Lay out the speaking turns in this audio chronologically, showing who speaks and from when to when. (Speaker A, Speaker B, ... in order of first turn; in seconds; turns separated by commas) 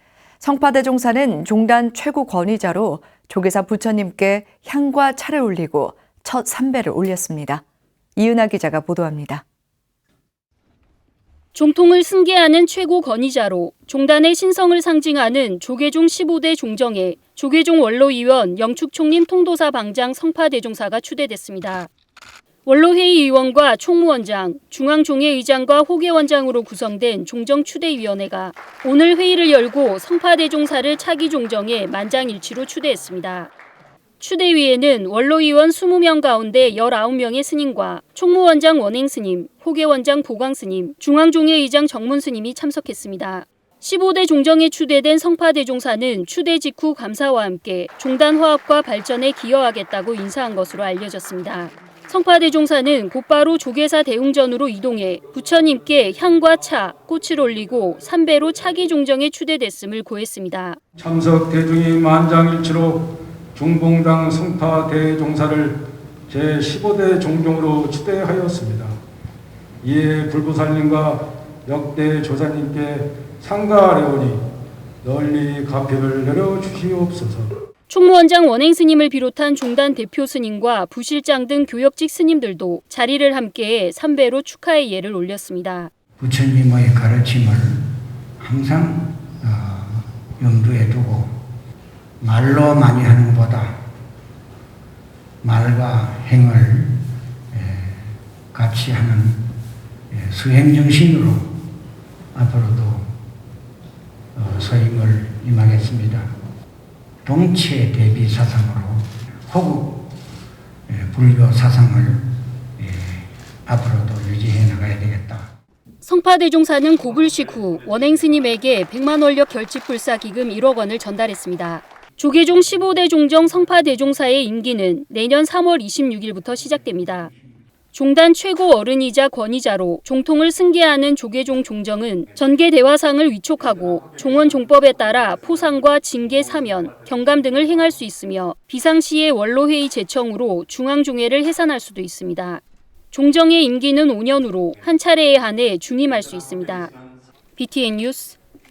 Speaker A: 0.4-7.6, Speaker A: 8.2-9.4, Speaker B: 11.5-21.9, Speaker B: 22.7-33.5, Speaker B: 34.2-60.8, Speaker C: 61.0-69.0, Speaker C: 69.8-74.5, Speaker C: 75.0-77.5, Speaker B: 77.9-85.9, Speaker D: 86.2-91.4, Speaker D: 92.2-93.8, Speaker D: 95.4-99.5, Speaker D: 100.1-101.5, Speaker D: 102.3-103.1, Speaker D: 104.3-106.3, Speaker D: 107.2-110.1, Speaker D: 110.9-115.5, Speaker B: 116.0-127.3, Speaker B: 127.9-146.9, Speaker B: 147.6-148.4